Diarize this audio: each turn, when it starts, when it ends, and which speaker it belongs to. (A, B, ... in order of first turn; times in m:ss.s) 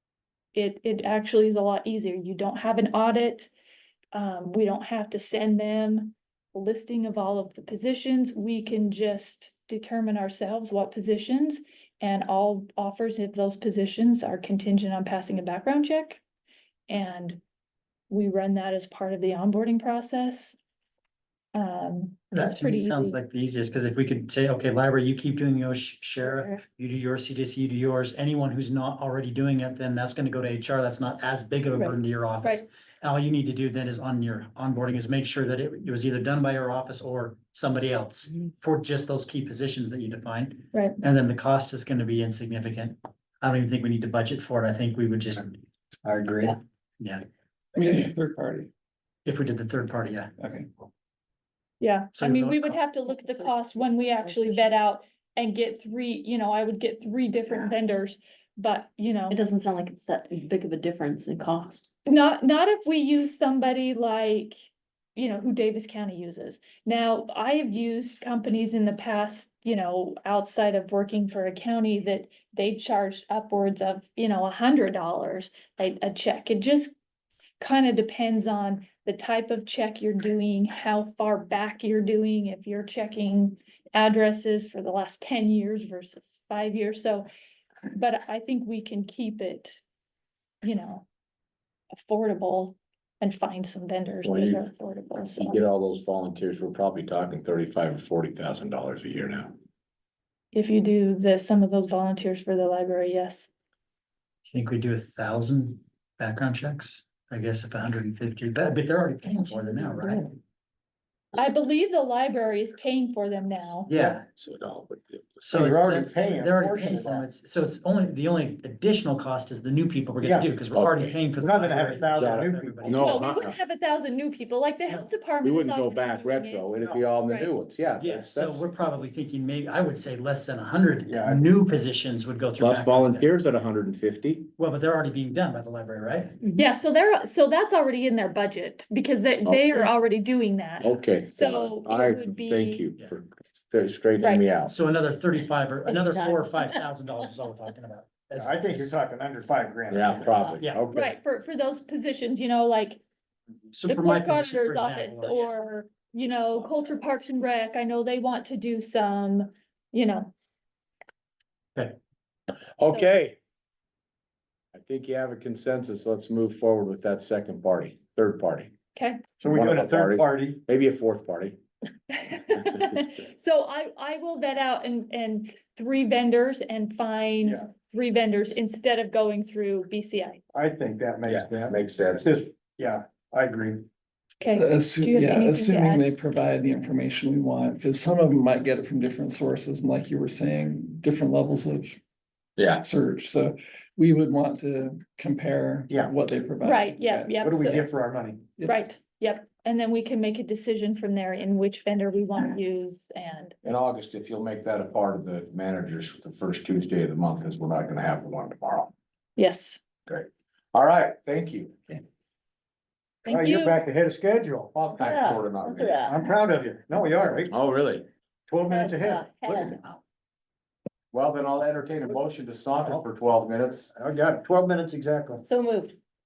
0:00.5-0:03.5 A
0:04.1-0:16.2 A
0:16.9-0:17.4 A
0:18.1-0:20.6 A
0:21.5-0:23.2 A
0:22.3-0:45.6 B
0:31.8-0:32.6 A
0:40.7-0:41.0 A
0:46.0-0:46.6 C
0:47.8-0:48.7 D
0:49.2-0:50.3 B
0:50.4-0:50.7 D
0:51.8-0:59.4 A
0:52.2-0:52.8 B
0:53.1-0:54.8 E
0:59.3-1:01.9 E
1:02.1-1:17.0 A
1:17.6-1:27.3 A
1:27.9-1:29.8 A
1:30.6-1:31.1 A
1:31.9-1:35.7 A
1:34.2-1:39.5 F
1:40.5-1:43.5 A
1:44.4-1:50.4 B
1:51.4-1:53.9 A
1:53.9-1:54.3 B
1:54.4-1:55.5 F
1:55.4-2:03.4 B
1:55.5-1:57.3 C
2:00.2-2:00.5 C
2:00.7-2:01.2 F
2:01.4-2:03.0 C
2:02.2-2:03.6 F
2:02.9-2:07.5 A
2:05.4-2:08.7 F
2:08.0-2:13.3 B
2:11.1-2:11.4 C
2:12.6-2:14.5 F
2:14.6-2:16.4 B
2:16.5-2:22.9 A
2:19.5-2:19.8 F
2:20.8-2:24.7 F
2:24.2-2:24.5 A
2:24.6-2:29.0 B
2:25.8-2:26.8 E
2:28.4-2:30.4 C
2:29.9-2:31.1 F
2:30.3-2:30.6 E
2:30.9-2:33.0 A
2:33.7-2:35.5 B
2:33.9-2:40.3 A
2:42.8-2:43.4 F
2:44.7-2:48.7 F
2:49.0-2:49.2 A
2:49.4-2:50.6 C
2:49.5-2:51.6 F
2:52.1-3:00.4 A
2:52.6-2:53.1 F
3:00.5-3:03.9 C
3:01.3-3:02.2 F
3:04.4-3:06.1 A
3:04.5-3:12.0 D
3:12.6-3:17.4 D
3:16.6-3:17.8 A
3:17.4-3:18.5 C
3:18.7-3:23.6 A
3:23.6-3:28.9 F
3:29.4-3:29.8 A
3:30.1-3:32.0 F
3:33.2-3:33.8 A
3:33.3-3:34.7 C
3:34.7-3:36.1 F
3:35.0-3:36.2 E
3:36.1-3:37.5 C
3:37.5-3:38.1 F
3:38.5-3:39.8 C
3:38.7-3:40.0 E
3:41.1-3:43.9 F
3:43.9-3:45.4 C
3:45.4-3:46.0 E